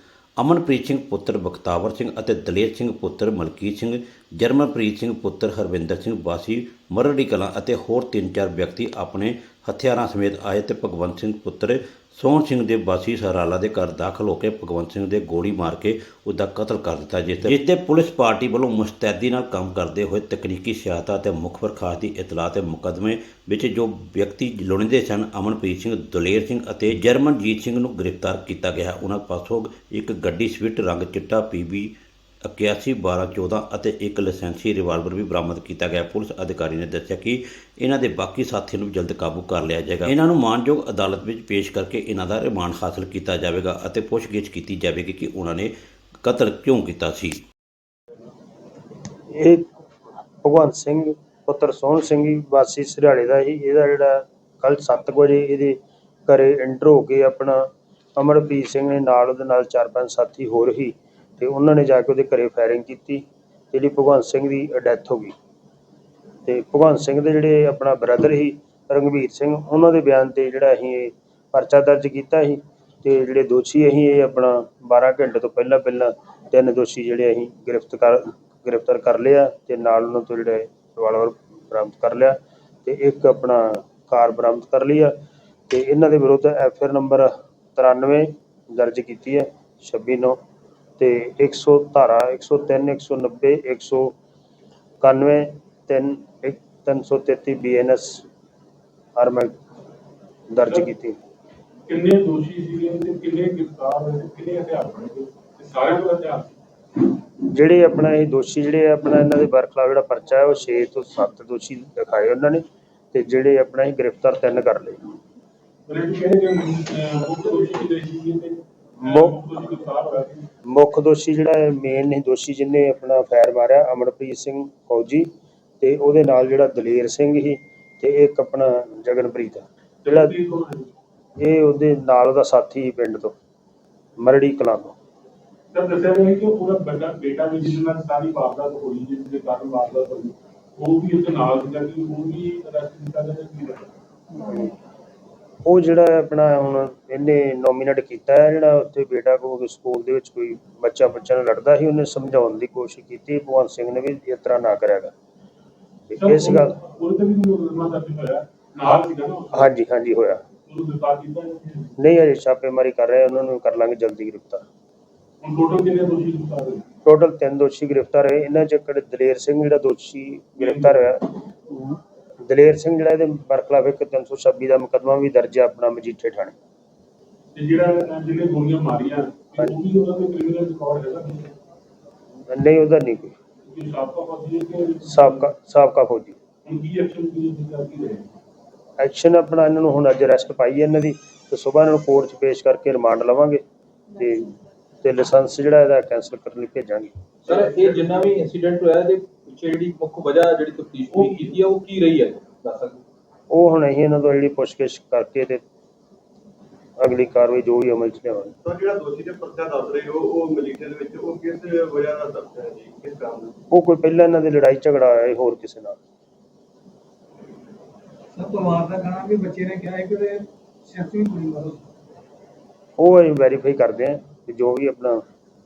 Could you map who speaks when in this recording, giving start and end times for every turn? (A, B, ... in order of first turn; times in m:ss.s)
0:00.4-0:31.9 A
0:32.4-0:45.7 A
0:46.2-0:47.4 A
0:49.3-0:49.7 B
0:50.4-1:05.3 B
1:06.5-1:25.1 B
1:25.7-1:30.4 B
1:31.0-1:34.2 B
1:35.0-1:38.2 B
1:39.2-1:39.6 B
1:40.5-1:41.2 B
1:41.9-1:46.5 C
1:47.4-1:55.1 B
1:55.9-2:00.5 C
1:59.0-1:59.4 B
2:00.7-2:10.4 B
2:10.0-2:10.9 C
2:11.4-2:13.4 B
2:14.2-2:15.0 B
2:15.7-2:23.9 C
2:24.4-2:24.7 B
2:25.6-2:35.1 B
2:36.1-2:36.8 B
2:36.2-2:39.7 C
2:39.5-2:40.4 B
2:40.7-2:42.0 C
2:42.0-2:44.7 B
2:45.4-2:46.8 C
2:47.0-2:56.6 B
2:50.6-2:51.0 C
2:57.6-3:01.5 C
3:02.5-3:03.3 B
3:03.7-3:05.4 C
3:05.1-3:06.4 B
3:06.6-3:08.3 C
3:09.0-3:13.6 B
3:14.2-3:17.1 B
3:17.4-3:23.0 D
3:23.5-3:25.6 B
3:27.0-3:28.6 B
3:28.6-3:33.6 E
3:33.7-3:36.0 B
3:38.4-3:41.8 F
3:43.0-3:45.2 B